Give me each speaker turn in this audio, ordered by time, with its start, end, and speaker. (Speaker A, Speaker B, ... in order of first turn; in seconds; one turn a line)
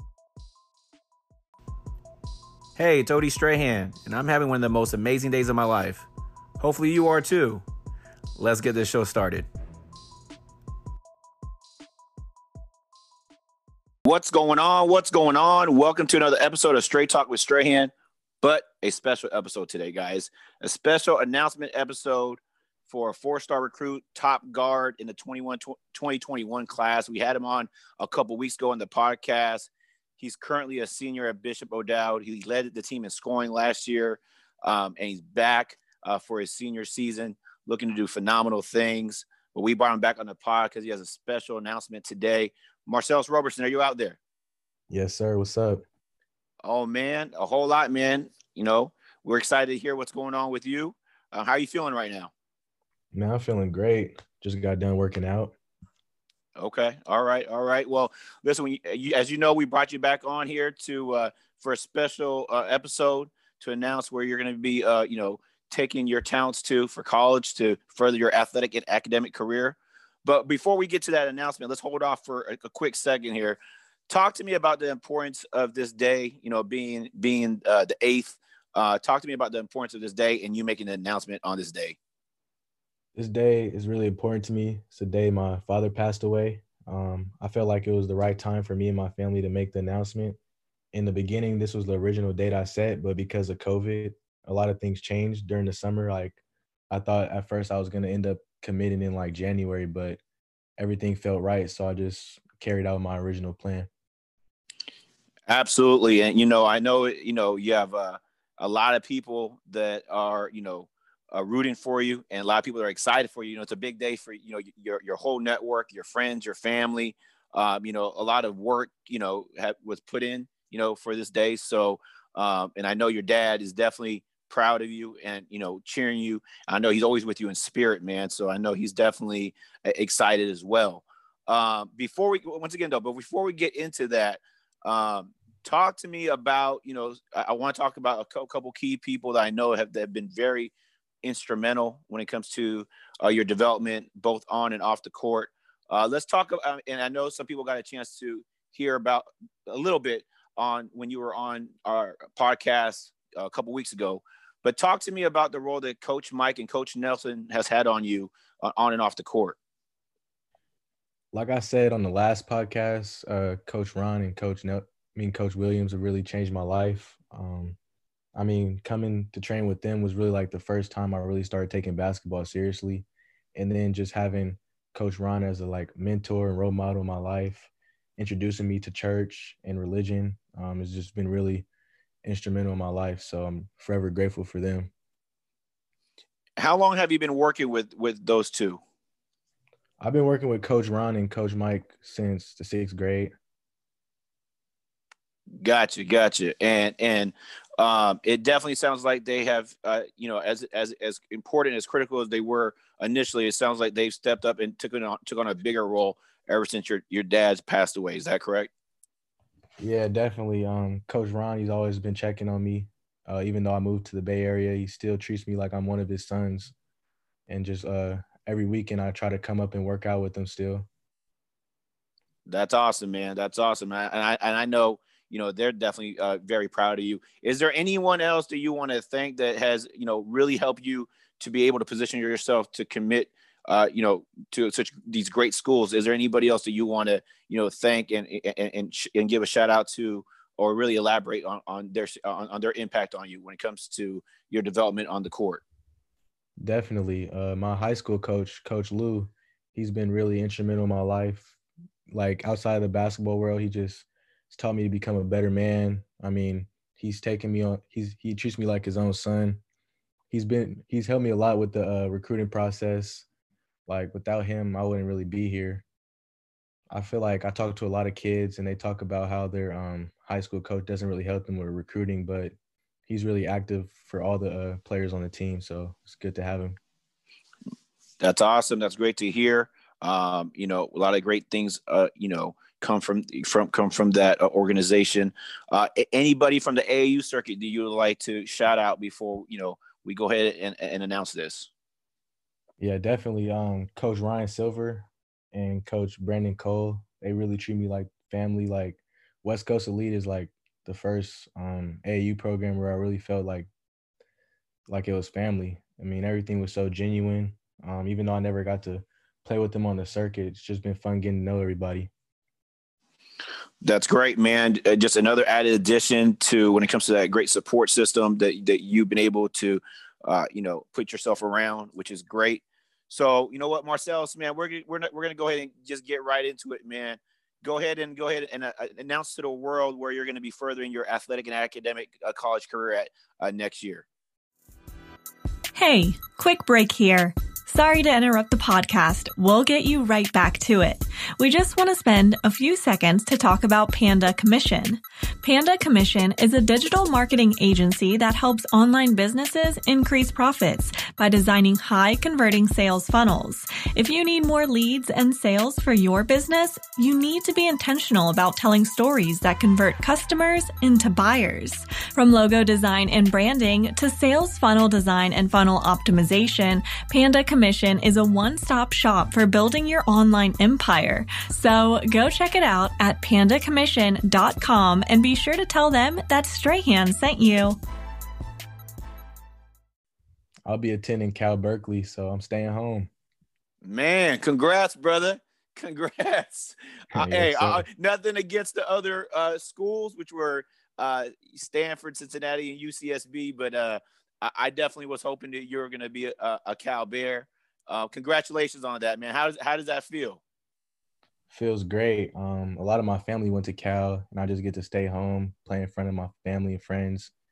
Speaker A: 2.8-6.1
Speaker A: 6.6-7.6
Speaker A: 8.4-9.5
Speaker A: 14.1-44.2
Speaker B: 44.9-45.8
Speaker A: 46.6-52.3
Speaker B: 53.1-55.5
Speaker A: 56.6-82.0
Speaker B: 83.2-90.4
Speaker B: 90.9-96.4
Speaker B: 96.9-100.2
Speaker B: 100.8-103.9
Speaker A: 105.5-159.6
Speaker B: 161.3-167.8
Speaker B: 168.3-181.7
Speaker B: 182.2-184.9
Speaker A: 186.6-188.8
Speaker B: 190.0-193.3
Speaker A: 195.6-208.7
Speaker B: 209.8-216.7
Speaker B: 217.5-220.9
Speaker A: 222.5-245.6
Speaker B: 246.6-251.6
Speaker B: 252.1-259.6
Speaker B: 260.3-263.3
Speaker B: 263.9-265.9
Speaker B: 266.9-272.5
Speaker B: 273.1-276.8
Speaker A: 278.2-291.7
Speaker B: 292.8-303.7
Speaker B: 304.9-312.1
Speaker A: 313.8-334.1
Speaker C: 335.8-377.8
Speaker B: 380.7-383.1
Speaker A: 383.8-400.4
Speaker B: 387.1-387.9
Speaker B: 401.5-407.3